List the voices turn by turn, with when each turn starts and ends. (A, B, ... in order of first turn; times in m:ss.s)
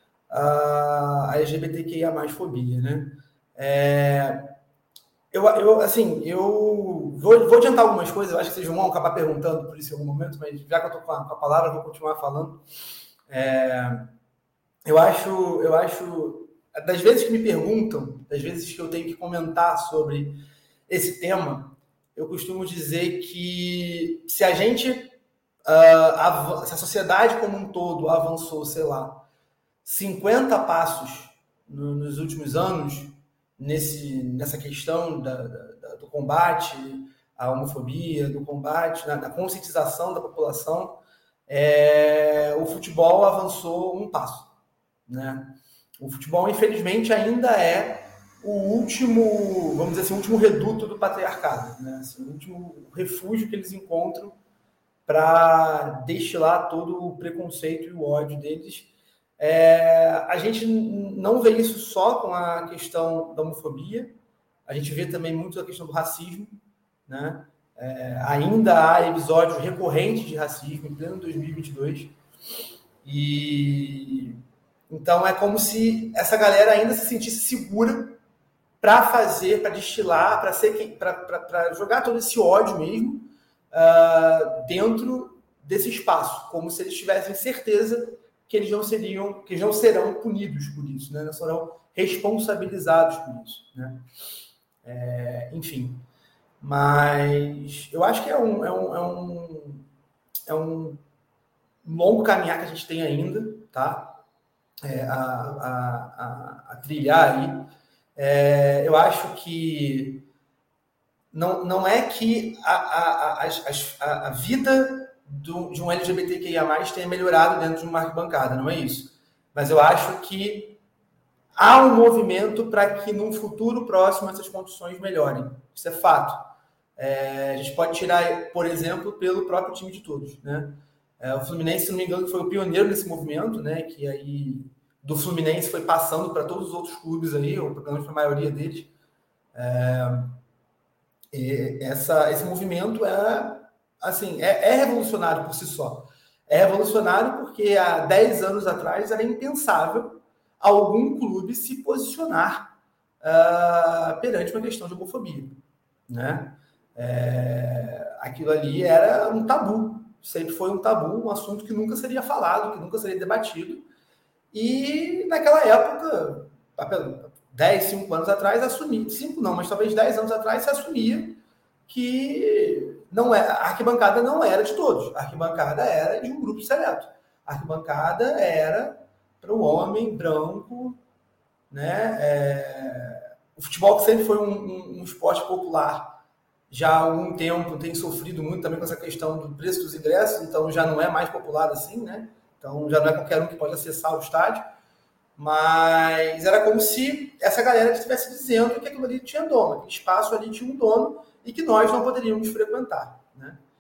0:00.3-0:04.5 A
0:05.3-0:12.6 A
0:13.3-0:14.0 A
0:14.8-0:25.1 A
0:25.7-0:29.2 A
0:29.8-0:44.5 A
0:45.1-0:54.4 A
0:55.1-1:12.2 A
1:13.0-1:18.2 A
1:18.8-1:34.0 A
1:34.8-1:36.0 A
1:36.6-1:39.8 A
1:40.5-1:41.0 A
1:41.8-1:44.2 A
1:44.8-1:50.3 A
1:51.3-2:00.8 A
2:01.6-2:18.9 A
2:19.6-2:20.4 A
2:21.3-2:35.6 A
2:36.1-2:43.9 A
2:44.5-3:01.0 A
3:01.7-3:14.6 A
3:15.4-3:23.6 A